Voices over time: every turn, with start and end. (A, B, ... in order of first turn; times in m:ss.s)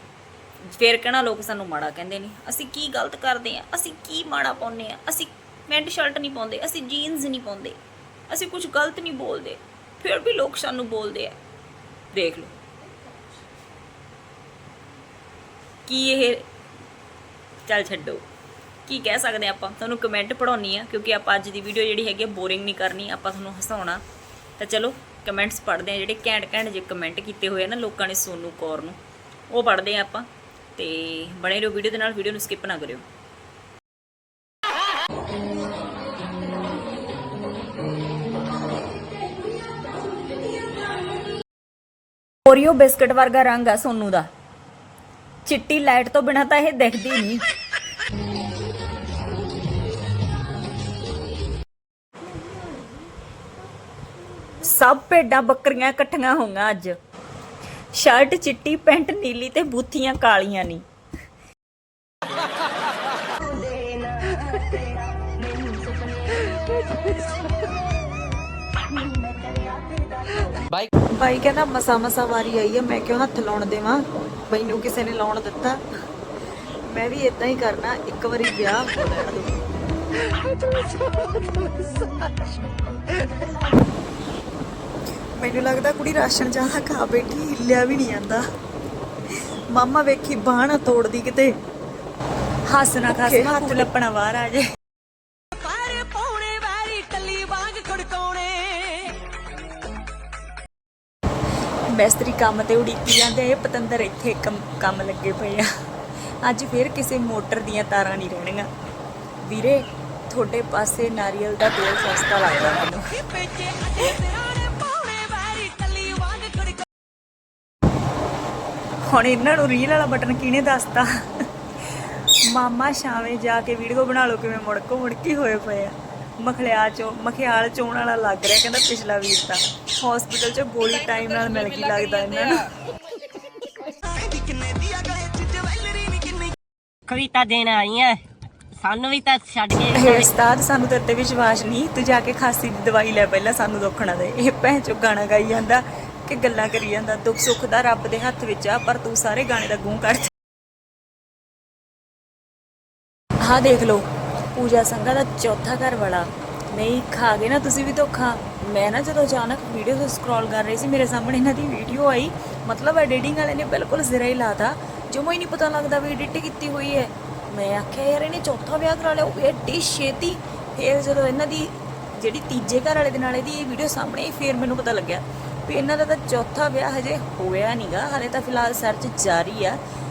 0:00.6-0:07.8 A
0:08.3-0:11.4 A
0:12.1-0:12.5 A
0:15.8-0:16.5 A
0:17.7-0:18.2 A
0:18.8-0:24.0 A
0:24.6-0:29.0 A
0:29.5-0:33.0 A
0:42.4-0:44.3 A
0:45.4-0:47.4 A
0:54.6-0:57.0 A
0:57.9-1:00.8 A
1:11.1-1:15.8 B
1:16.9-1:19.5 B
1:25.4-1:28.4 B
1:29.7-1:31.5 B
1:32.7-1:34.6 A
1:33.1-1:33.9 B
1:35.5-1:39.1 C
1:41.9-1:45.7 A
1:46.4-1:48.7 A
1:49.4-1:53.0 A
1:53.2-1:56.8 C
1:59.1-2:01.1 A
2:02.5-2:12.6 A
2:14.2-2:16.5 C
2:17.1-2:18.2 D
2:18.8-2:20.3 D
2:19.9-2:30.3 A
2:33.4-2:34.0 A
2:34.5-2:59.8 A